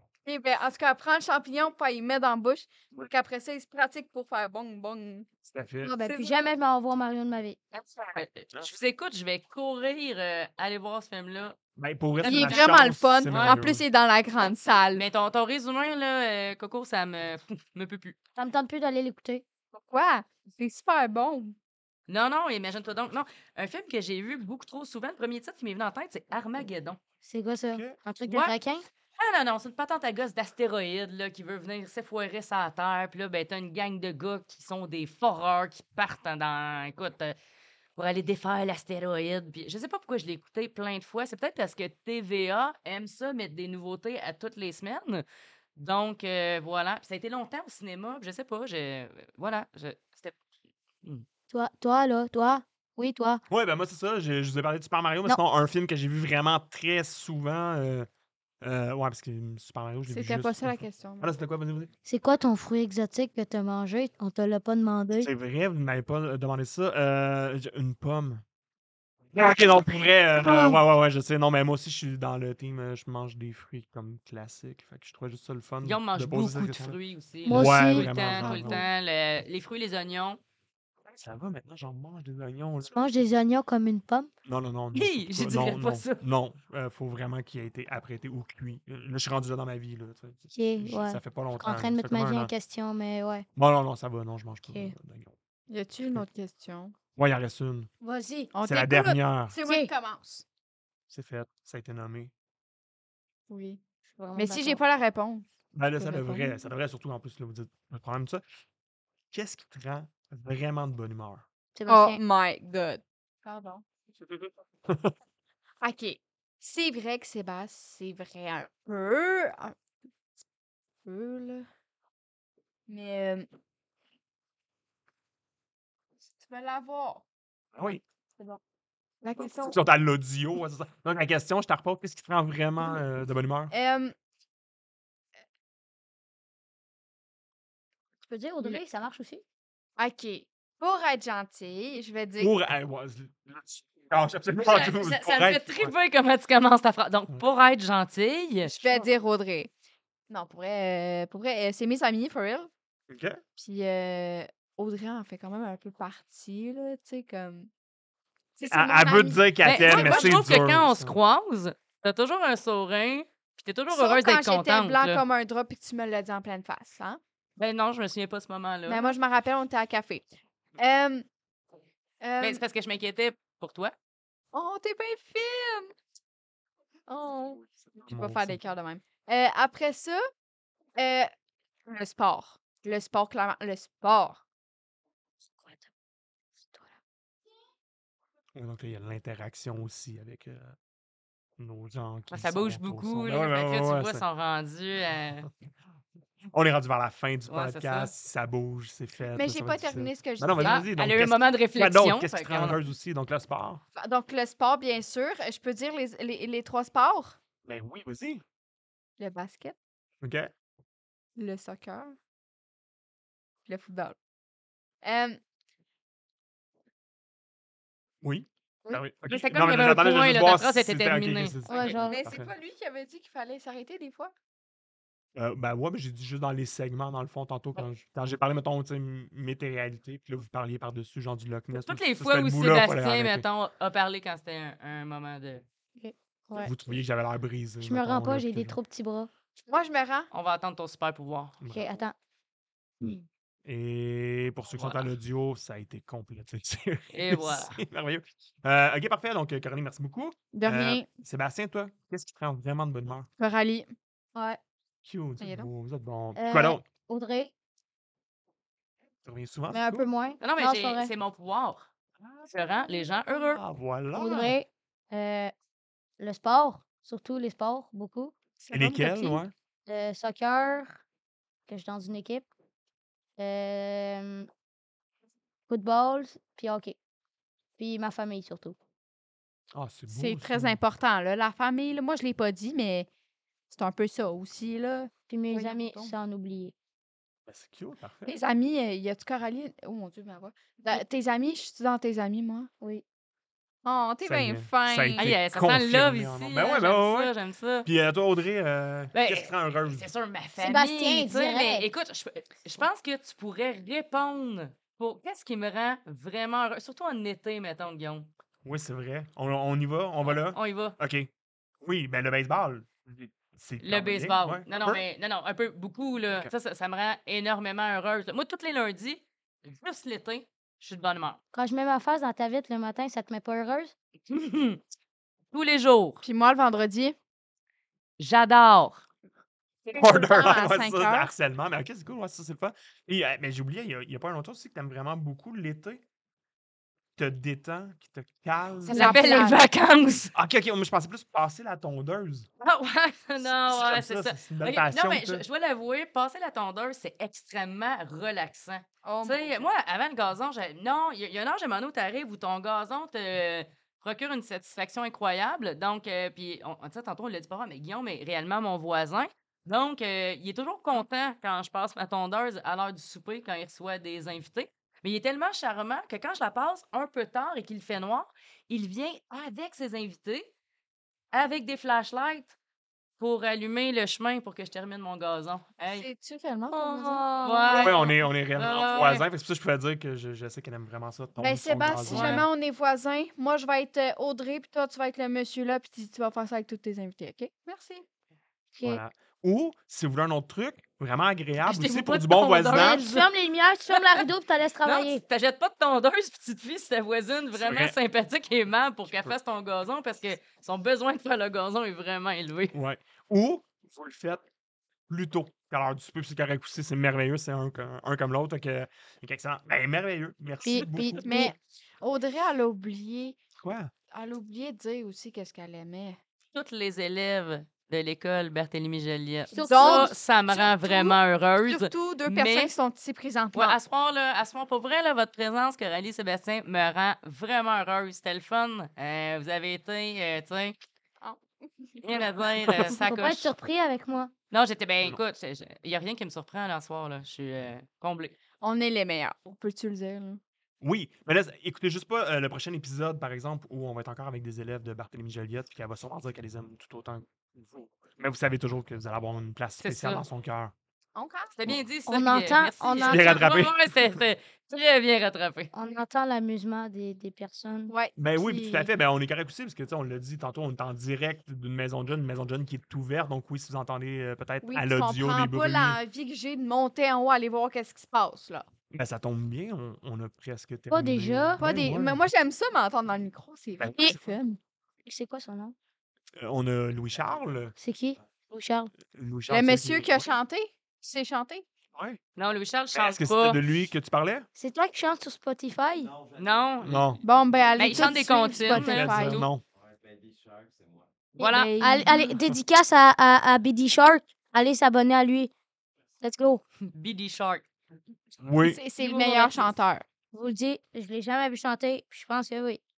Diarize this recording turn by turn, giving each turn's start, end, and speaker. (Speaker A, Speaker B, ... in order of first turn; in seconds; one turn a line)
Speaker A: 0.2-5.3
Speaker B: 5.5-5.9
Speaker C: 5.8-7.6
Speaker A: 6.0-6.4
Speaker D: 8.1-11.6
Speaker B: 11.8-13.8
Speaker D: 12.2-12.8
Speaker A: 12.2-15.0
Speaker D: 13.3-13.6
Speaker D: 14.9-18.1
Speaker C: 18.4-19.4
Speaker A: 19.7-21.6
Speaker D: 22.1-27.0
Speaker C: 27.2-28.9
Speaker B: 27.7-28.0
Speaker D: 29.2-37.3
Speaker D: 38.0-45.2
Speaker D: 45.8-50.4
Speaker C: 51.5-53.4
Speaker B: 53.5-58.1
Speaker B: 58.6-61.9
Speaker A: 60.1-61.3
Speaker C: 62.0-65.3
Speaker B: 65.2-68.4
Speaker B: 69.3-78.8
Speaker C: 69.7-70.8
Speaker D: 75.8-80.4
Speaker C: 77.5-78.8
Speaker B: 81.1-83.0
Speaker C: 82.8-84.3
Speaker B: 84.5-92.5
Speaker D: 84.9-86.2
Speaker C: 90.5-93.5
Speaker B: 93.5-95.3
Speaker C: 94.6-94.9
Speaker A: 95.7-96.9
Speaker B: 97.2-97.9
Speaker C: 98.0-98.5
Speaker A: 98.5-100.4
Speaker B: 98.6-99.6
Speaker C: 99.6-99.9
Speaker B: 101.1-102.3
Speaker A: 103.5-103.8
Speaker C: 104.1-104.8
Speaker A: 104.3-105.5
Speaker B: 105.7-108.4
Speaker A: 106.0-106.6
Speaker B: 109.3-111.4
Speaker C: 111.7-112.2
Speaker A: 111.9-113.8
Speaker B: 114.9-115.1
Speaker A: 115.8-119.8
Speaker A: 121.0-121.7
Speaker A: 122.9-123.5
Speaker A: 126.4-127.2
Speaker B: 127.8-128.0
Speaker A: 129.2-129.8
Speaker B: 129.4-133.7
Speaker A: 133.7-134.1
Speaker C: 138.2-139.4
Speaker A: 140.0-142.5
Speaker B: 142.4-145.9
Speaker D: 144.6-148.7
Speaker A: 148.6-149.7
Speaker A: 150.3-152.7
Speaker B: 153.1-153.4
Speaker A: 153.6-157.7
Speaker A: 158.6-160.4
Speaker B: 158.7-161.2
Speaker D: 159.6-165.2
Speaker A: 163.9-167.2
Speaker D: 167.6-169.1
Speaker A: 168.9-170.2
Speaker A: 170.8-171.2
Speaker A: 172.2-172.6
Speaker D: 172.4-173.9
Speaker A: 174.5-175.9
Speaker A: 177.1-180.2
Speaker B: 178.1-178.6
Speaker A: 181.0-181.3
Speaker A: 181.9-184.4
Speaker C: 185.5-185.9
Speaker C: 186.6-186.9
Speaker B: 188.5-190.8
Speaker B: 191.6-194.2
Speaker D: 192.3-195.5
Speaker B: 196.5-203.8
Speaker D: 197.5-198.1
Speaker A: 199.3-200.8
Speaker D: 200.6-202.8
Speaker A: 203.9-207.4
Speaker B: 207.6-208.4
Speaker A: 209.2-209.8
Speaker B: 210.2-210.5
Speaker A: 211.3-212.2
Speaker A: 213.7-214.2
Speaker A: 215.0-215.4
Speaker B: 218.2-222.5
Speaker D: 219.3-221.9
Speaker C: 221.7-222.2
Speaker A: 222.1-224.3
Speaker B: 225.3-233.4
Speaker D: 231.7-235.6
Speaker C: 236.0-236.7
Speaker B: 236.6-238.8
Speaker C: 237.8-239.3
Speaker A: 239.7-240.3
Speaker D: 240.3-241.6
Speaker B: 241.6-242.0
Speaker C: 241.7-242.1
Speaker B: 243.7-253.3
Speaker D: 244.7-245.1
Speaker D: 247.1-247.8
Speaker A: 250.5-251.1
Speaker A: 253.4-253.9
Speaker C: 254.3-254.6
Speaker B: 255.0-256.8
Speaker A: 255.4-255.7
Speaker C: 256.4-257.5
Speaker B: 259.2-260.1
Speaker C: 259.7-261.1
Speaker D: 260.4-261.9
Speaker B: 262.2-262.5
Speaker D: 262.5-263.6
Speaker B: 263.5-264.6
Speaker C: 264.1-265.5
Speaker C: 266.2-268.3
Speaker A: 268.6-269.4
Speaker B: 268.7-269.5
Speaker C: 269.9-271.0
Speaker C: 271.7-272.5
Speaker C: 273.4-274.5
Speaker C: 275.7-276.9
Speaker C: 277.8-278.8
Speaker B: 279.7-280.8
Speaker A: 280.1-283.1
Speaker A: 283.7-286.1
Speaker C: 285.3-286.7
Speaker B: 287.5-288.3
Speaker A: 288.2-292.7
Speaker A: 293.8-295.3
Speaker B: 294.2-297.3
Speaker D: 295.2-297.9
Speaker B: 297.8-300.1
Speaker D: 299.1-308.3
Speaker C: 300.6-301.9
Speaker B: 308.6-311.3
Speaker D: 310.2-311.0
Speaker B: 311.8-315.0
Speaker D: 313.8-321.4
Speaker C: 321.5-323.9
Speaker D: 324.3-324.8
Speaker D: 325.5-326.2
Speaker A: 326.2-327.1
Speaker D: 328.2-329.1
Speaker B: 329.9-336.0
Speaker A: 329.9-331.3
Speaker B: 337.2-339.2
Speaker A: 338.8-339.6
Speaker D: 338.9-340.3
Speaker B: 340.3-342.5
Speaker D: 342.6-370.5
Speaker B: 343.4-345.4
Speaker A: 349.0-349.5
Speaker D: 371.3-372.6
Speaker D: 373.2-376.1
Speaker A: 375.8-378.1
Speaker C: 376.7-377.9
Speaker D: 376.8-379.2
Speaker B: 377.8-382.5
Speaker A: 381.4-388.0
Speaker D: 382.1-382.4
Speaker C: 388.7-389.0
Speaker B: 388.8-393.1
Speaker D: 391.6-393.3
Speaker C: 392.7-395.2
Speaker D: 393.9-394.2
Speaker D: 394.8-402.7
Speaker B: 397.6-397.9
Speaker B: 402.7-404.4
Speaker B: 405.1-411.5
Speaker C: 410.6-411.5
Speaker A: 411.2-413.4
Speaker B: 413.6-413.9
Speaker A: 414.1-416.2
Speaker D: 416.5-422.7
Speaker C: 419.5-420.1
Speaker A: 419.5-423.8
Speaker D: 423.5-430.8
Speaker A: 431.2-432.0
Speaker D: 432.0-433.5
Speaker C: 433.0-434.3
Speaker D: 434.5-438.4
Speaker A: 438.6-440.4
Speaker B: 440.8-450.7
Speaker D: 449.8-450.2
Speaker A: 451.1-451.5
Speaker D: 451.5-455.7
Speaker C: 452.1-453.4
Speaker B: 453.1-453.8
Speaker C: 455.7-457.9
Speaker A: 457.9-458.9
Speaker B: 458.2-466.0
Speaker A: 464.6-468.7
Speaker B: 468.9-472.2
Speaker C: 470.9-471.6
Speaker A: 471.6-474.6
Speaker B: 473.8-474.2
Speaker C: 475.0-475.7
Speaker B: 476.4-477.7
Speaker C: 477.8-478.9
Speaker B: 479.1-480.3
Speaker A: 479.5-481.6
Speaker D: 482.4-483.6
Speaker B: 482.9-484.5
Speaker C: 484.6-486.1
Speaker D: 486.3-489.5
Speaker B: 486.8-487.2
Speaker A: 487.2-489.4
Speaker C: 488.7-489.1
Speaker B: 488.7-489.6
Speaker A: 491.4-492.4
Speaker D: 491.4-491.7
Speaker C: 491.8-495.5
Speaker C: 496.2-496.6
Speaker D: 496.9-497.7
Speaker B: 498.4-498.8
Speaker A: 498.6-500.0
Speaker D: 499.0-499.7
Speaker C: 500.3-502.8